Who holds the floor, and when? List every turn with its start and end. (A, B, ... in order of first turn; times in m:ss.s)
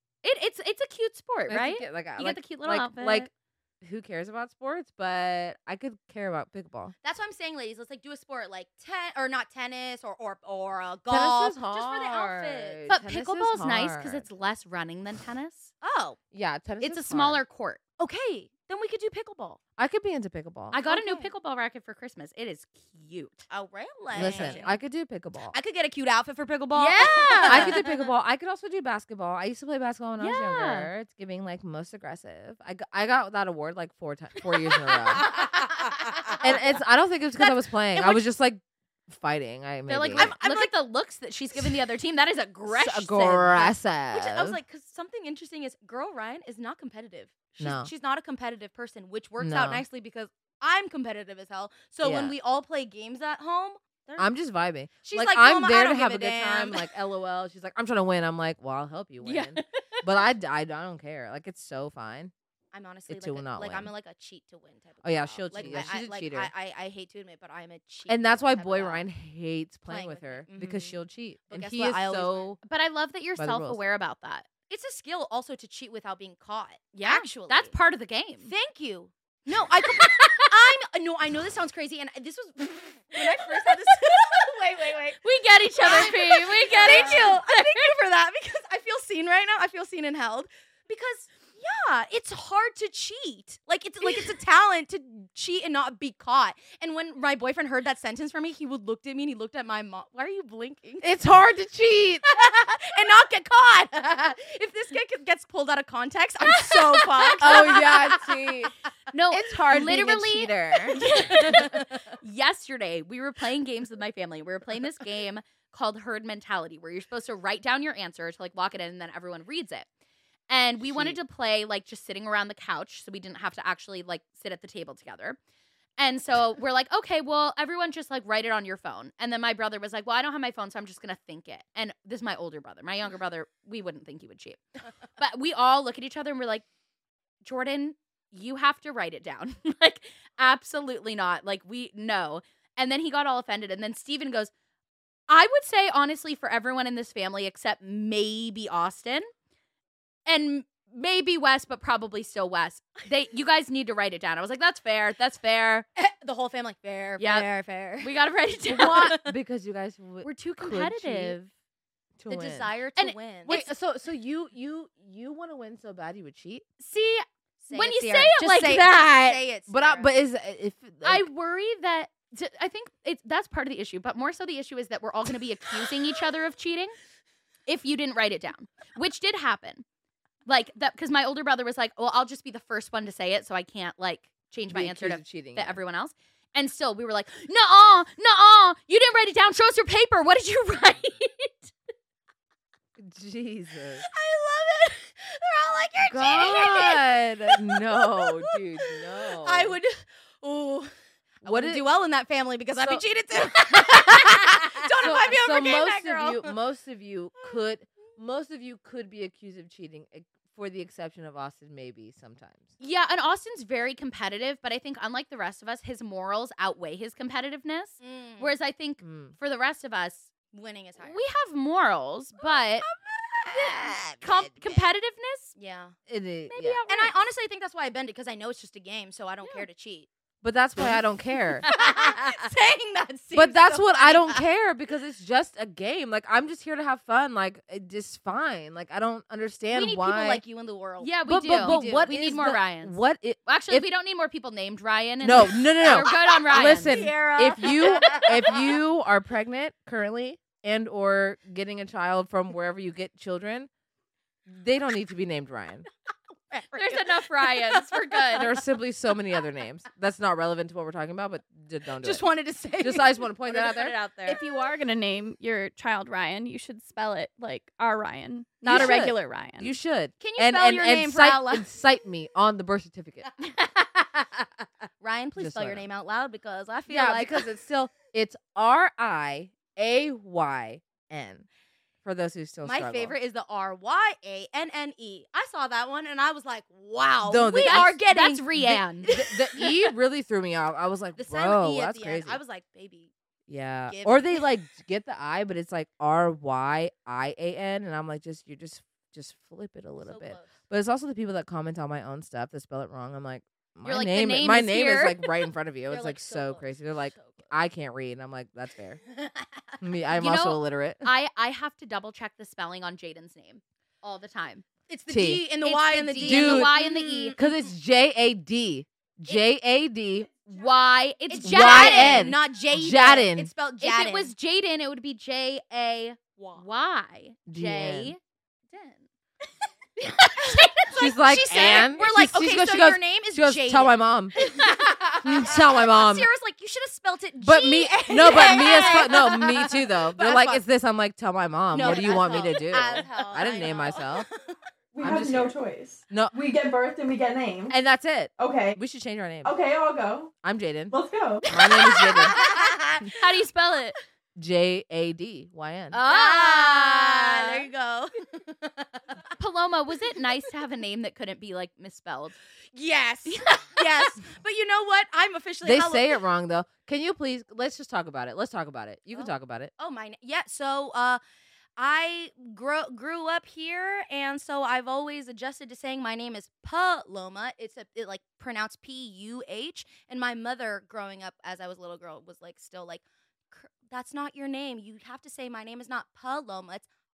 0:00.2-0:03.3 A
0:01.5-0:03.3 B
0:03.8-0:06.9 B
0:07.0-0:12.8 C
0:11.1-0:14.2 B
0:12.9-0:15.7 A
0:15.8-0:16.2 C
0:16.3-0:17.4 B
0:16.8-0:17.8 A
0:18.0-0:19.6 C
0:19.8-0:20.8 B
0:20.7-0:23.4 A
0:20.9-0:21.3 C
0:23.5-0:24.8 C
0:24.1-0:24.7 A
0:24.1-0:25.6 B
0:25.5-0:27.9 C
0:26.7-0:27.8 A
0:27.4-0:35.3 B
0:30.2-0:30.9 A
0:35.1-0:36.6 C
0:36.4-0:40.3 B
0:37.4-0:38.2 C
0:39.9-0:43.7 A
0:40.2-0:40.7 C
0:42.7-0:44.6 B
0:44.1-0:54.3 C
0:47.6-0:47.9 B
0:49.4-0:49.8 B
0:52.0-0:52.3 B
0:54.2-1:02.3 B
0:55.0-0:56.9 C
1:02.7-1:09.0 C
1:03.1-1:03.9 B
1:05.0-1:06.5 B
1:05.6-1:05.9 A
1:08.1-1:12.6 B
1:09.9-1:11.0 C
1:11.5-1:12.5 C
1:12.6-1:14.5 A
1:13.4-1:13.8 B
1:14.7-1:17.7 C
1:17.0-1:18.5 A
1:18.4-1:25.2 C
1:20.0-1:20.4 A
1:25.2-1:27.9 A
1:25.8-1:41.1 C
1:41.0-1:42.3 B
1:42.3-1:48.2 C
1:46.7-1:48.0 A
1:47.4-1:48.7 B
1:49.1-1:59.8 A
1:49.3-1:51.7 B
1:51.3-1:52.0 C
2:00.5-2:05.4 A
2:00.9-2:01.2 B
2:06.0-2:14.6 A
2:15.2-2:16.6 A
2:17.4-2:24.5 A
2:25.3-2:29.3 A
2:30.3-2:35.8 A
2:36.0-2:38.1 C
2:37.2-2:37.5 A
2:38.0-2:39.2 A
2:38.7-2:41.4 B
2:40.2-2:41.5 A
2:42.2-2:42.7 B
2:42.3-2:43.6 C
2:43.0-2:43.7 A
2:43.4-2:46.6 B
2:46.8-2:48.9 A
2:47.6-2:50.1 C
2:48.6-2:51.2 B
2:51.0-2:57.0 A
2:57.7-2:59.8 A
3:00.4-3:11.7 A
3:04.7-3:05.8 B
3:13.0-3:14.1 B
3:14.1-3:26.5 C
3:16.1-3:19.8 B
3:21.4-3:21.8 B
3:24.1-3:32.7 B
3:32.8-3:40.3 A
3:38.0-3:38.5 C
3:39.0-3:39.4 B
3:40.5-3:41.2 C
3:41.0-3:42.8 A
3:43.5-3:44.5 B
3:43.6-3:44.0 C
3:44.2-3:45.5 A
3:45.6-3:46.0 C
3:46.1-3:46.8 B
3:46.5-3:47.1 A
3:46.9-3:50.1 C
3:50.4-3:51.6 B
3:51.6-3:54.4 C
3:51.6-3:51.9 A
3:53.3-4:00.4 B
3:59.8-4:02.1 C
4:01.0-4:06.9 A
4:01.2-4:03.9 B
4:05.2-4:13.7 B
4:05.8-4:08.8 C
4:14.5-4:15.8 B
4:16.5-4:18.2 C
4:16.7-4:18.5 A
4:18.3-4:22.2 B
4:22.0-4:24.4 C
4:22.8-4:24.0 B
4:24.2-4:29.7 D
4:28.6-4:33.3 B
4:30.2-4:31.6 C
4:35.0-4:37.5 C
4:35.4-4:35.8 B
4:36.9-4:41.5 B
4:42.0-4:43.1 B
4:42.6-4:48.5 C
4:47.2-4:48.0 B
4:47.5-4:49.1 A
4:48.6-4:52.4 B
4:49.1-4:49.8 C
4:51.2-4:53.1 C
4:53.5-5:09.0 B
4:53.9-4:54.5 C
5:00.0-5:00.5 C
5:03.8-5:05.3 A
5:05.9-5:07.5 C
5:09.8-5:11.1 B
5:10.1-5:14.6 A
5:14.9-5:17.5 C
5:15.1-5:15.4 B
5:15.6-5:17.4 A
5:16.2-5:16.8 B
5:17.3-5:20.3 B
5:20.5-5:22.3 A
5:21.3-5:24.3 C
5:21.4-5:23.5 B
5:23.8-5:28.2 A
5:26.4-5:26.6 C
5:27.5-5:28.1 B
5:28.7-5:29.0 A
5:30.0-5:31.0 A
5:30.4-5:40.6 C
5:30.9-5:34.3 B
5:35.2-5:36.3 B
5:37.4-5:44.3 B
5:41.7-5:44.5 C
5:42.1-5:42.5 A
5:44.9-5:47.8 E
5:45.0-5:45.5 B
5:46.1-5:46.3 B
5:47.7-5:49.5 B
5:48.4-5:48.8 E
5:49.4-5:50.3 E
5:50.4-5:51.0 B
5:50.9-5:51.4 E
5:51.5-5:52.5 B
5:51.6-5:53.1 C
5:53.1-5:54.0 A
5:54.4-5:56.0 B
5:55.9-5:57.7 A
5:56.0-5:59.0 C
5:59.4-6:02.4 A
6:02.7-6:06.2 C
6:03.2-6:04.2 A
6:05.6-6:09.7 B
6:09.1-6:11.2 C
6:11.8-6:26.9 C